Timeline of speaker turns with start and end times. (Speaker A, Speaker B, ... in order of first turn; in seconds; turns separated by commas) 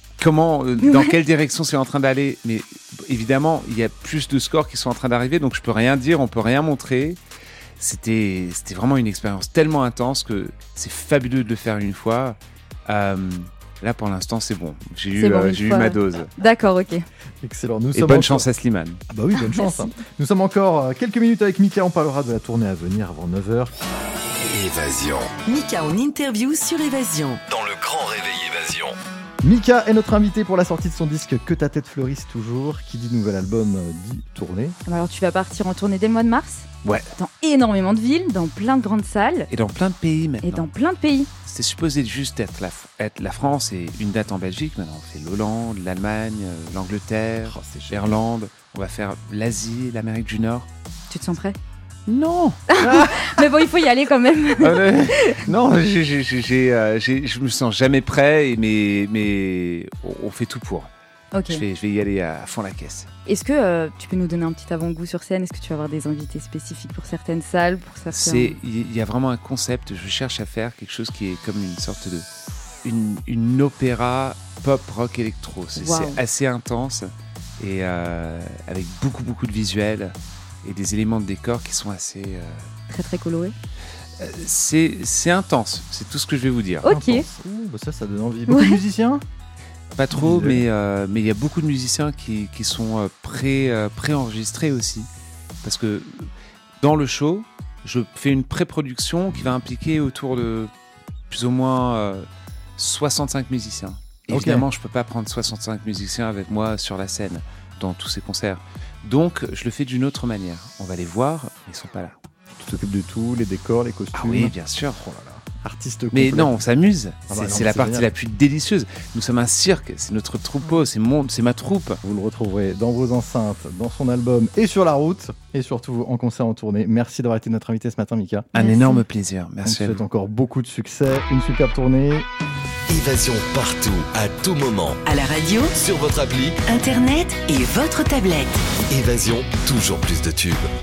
Speaker A: 0.2-7.2, Speaker B: 0.8-1.1, Speaker A: 7.8-16.3, Speaker B: 15.1-17.0, Speaker C: 17.4-18.5, Speaker A: 17.9-19.0, Speaker C: 19.1-23.7, Speaker B: 19.4-19.9, Speaker D: 24.4-25.3, Speaker E: 25.4-27.4, Speaker D: 27.5-29.0, Speaker C: 29.4-34.8, Speaker B: 34.9-39.5, Speaker A: 36.8-37.1, Speaker A: 39.5-40.7, Speaker B: 40.4-41.3, Speaker A: 41.5-50.7, Speaker C: 47.5-48.2, Speaker B: 51.1-51.6, Speaker A: 52.1-53.4, Speaker B: 52.7-55.4, Speaker A: 54.6-60.9, Speaker B: 61.3-61.6, Speaker A: 61.5-63.1, Speaker B: 63.2-68.5, Speaker A: 68.1-72.3, Speaker A: 72.8-82.6, Speaker B: 75.8-76.2, Speaker B: 82.9-83.5, Speaker A: 84.2-86.9, Speaker B: 86.8-87.2, Speaker C: 86.8-89.2, Speaker B: 88.5-88.8, Speaker A: 89.9-95.1, Speaker C: 90.1-90.6, Speaker A: 95.6-100.7, Speaker A: 101.3-112.2, Speaker C: 104.3-104.7, Speaker C: 112.5-116.5, Speaker A: 114.1-115.0, Speaker A: 116.1-122.0, Speaker C: 117.3-118.1, Speaker C: 122.0-128.5, Speaker B: 128.5-129.0, Speaker A: 128.5-130.0, Speaker C: 129.6-132.2, Speaker D: 132.9-135.0, Speaker E: 135.0-135.8, Speaker D: 135.7-136.6, Speaker E: 136.6-138.6, Speaker D: 138.9-140.7